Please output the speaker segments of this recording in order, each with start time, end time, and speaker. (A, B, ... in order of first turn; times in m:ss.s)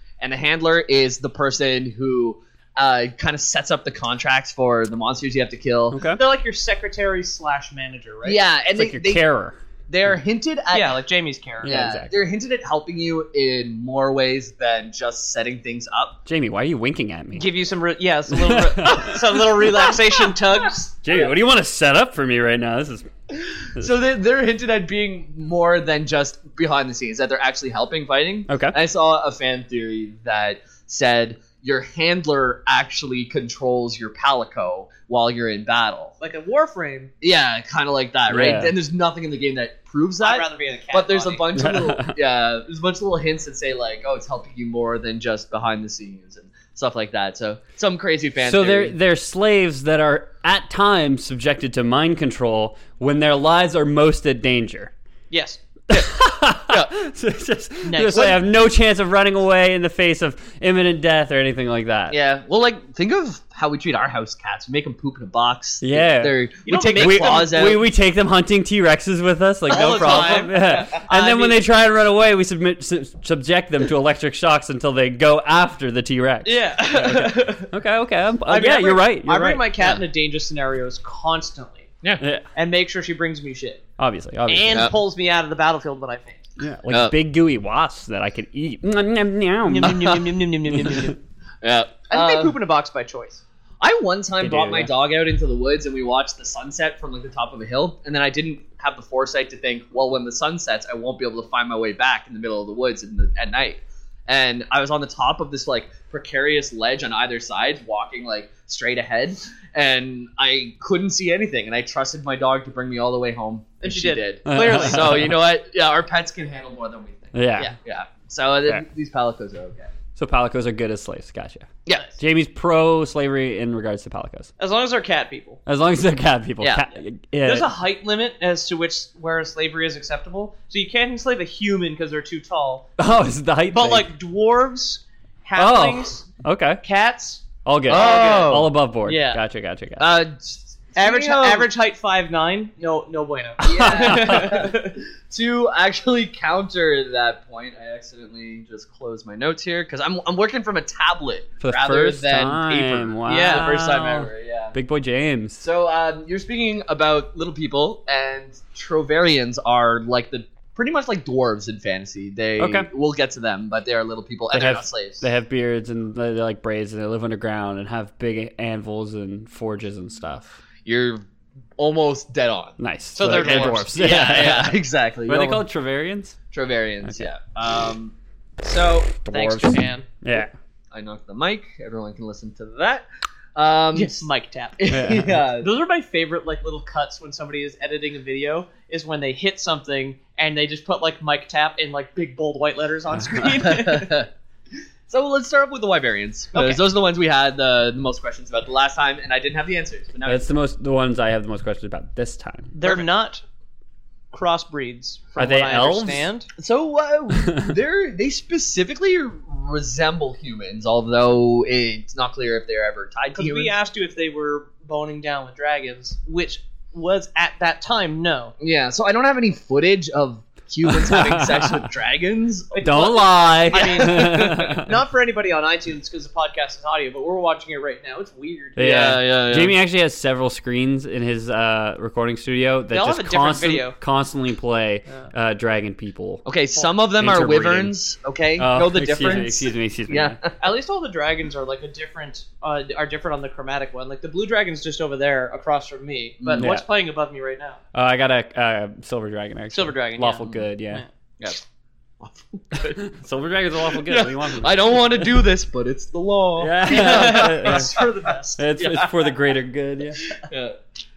0:00.2-0:06.0 A
0:05.9-0:06.2 B
0:06.1-0:08.4 C
0:08.2-0:09.2 A
0:08.8-0:09.6 B
0:09.9-0:11.0 A
0:10.7-0:11.8 C
0:11.6-0:12.1 B
0:11.6-0:16.2 A
0:16.2-0:17.4 B
0:17.4-0:21.3 C
0:18.3-0:19.2 B
0:18.9-0:19.2 A
0:21.0-0:23.1 B
0:23.8-0:36.1 A
0:28.5-0:28.8 B
0:36.2-0:37.1 C
0:37.2-0:48.9 A
0:38.3-0:38.7 B
0:40.2-0:41.5 C
0:41.6-0:42.1 B
0:48.4-0:54.9 B
0:55.3-0:55.6 C
0:55.9-1:02.2 B
0:57.8-0:58.4 C
1:02.1-1:07.8 A
1:05.8-1:06.4 B
1:06.6-1:07.6 C
1:06.9-1:19.9 B
1:09.7-1:11.6 C
1:09.7-1:10.5 A
1:16.4-1:17.7 C
1:18.5-1:21.9 C
1:22.2-1:22.4 B
1:22.5-1:23.8 C
1:24.0-1:24.9 B
1:24.5-1:26.4 C
1:26.6-1:30.1 B
1:29.6-1:31.2 C
1:29.9-1:30.2 A
1:31.6-1:32.5 A
1:32.1-1:33.4 C
1:33.8-1:59.9 A
1:34.4-1:34.9 B
1:53.8-1:55.3 C
1:54.5-1:55.4 B
1:57.3-1:57.7 B
2:00.2-2:04.5 B
2:01.8-2:02.2 A
2:04.6-2:05.6 C
2:05.6-2:07.7 B
2:06.9-2:12.8 C
2:13.0-2:14.1 B
2:13.7-2:16.2 C
2:15.6-2:16.8 B
2:16.8-2:18.5 C
2:17.6-2:20.2 B
2:17.9-2:18.7 A
2:19.0-2:19.4 C
2:20.0-2:21.7 A
2:21.0-2:25.0 C
2:23.6-2:24.7 B
2:23.6-2:34.8 A
2:31.6-2:35.6 B
2:33.2-2:34.2 C
2:35.6-2:45.2 A
2:42.6-2:42.9 B
2:44.5-2:50.6 B
2:50.8-2:51.2 A
2:51.8-2:55.6 A
2:52.8-2:56.4 B
2:53.1-2:54.6 C
2:56.5-2:59.8 A
2:59.2-3:00.5 B
2:59.3-3:00.1 C
3:00.9-3:05.7 A
3:03.9-3:04.8 C
3:04.9-3:05.4 B
3:05.6-3:14.1 C
3:13.6-3:14.3 A
3:15.1-3:20.5 A
3:16.5-3:16.8 C
3:20.2-3:23.0 B
3:22.7-3:23.4 C
3:24.3-3:26.5 C
3:25.4-3:26.3 B
3:26.6-3:33.7 A
3:33.3-3:38.5 C
3:38.6-3:42.9 A
3:40.9-3:41.6 B
3:42.7-3:48.8 C
3:42.8-3:44.9 B
3:43.7-3:44.8 A
3:48.8-3:56.4 B
3:48.8-3:49.7 A
3:52.9-3:54.0 C
3:56.4-4:00.5 A
3:57.2-3:57.9 B
3:58.6-4:00.4 B
4:00.6-4:07.8 C
4:06.4-4:06.7 A
4:06.5-4:06.8 B
4:07.9-4:11.0 B
4:09.7-4:11.0 C
4:12.2-4:13.0 A
4:12.8-4:15.3 B
4:13.8-4:18.0 A
4:16.6-4:17.9 B
4:16.8-4:18.6 C
4:18.6-4:20.2 B
4:18.8-4:19.3 A
4:20.4-4:20.8 A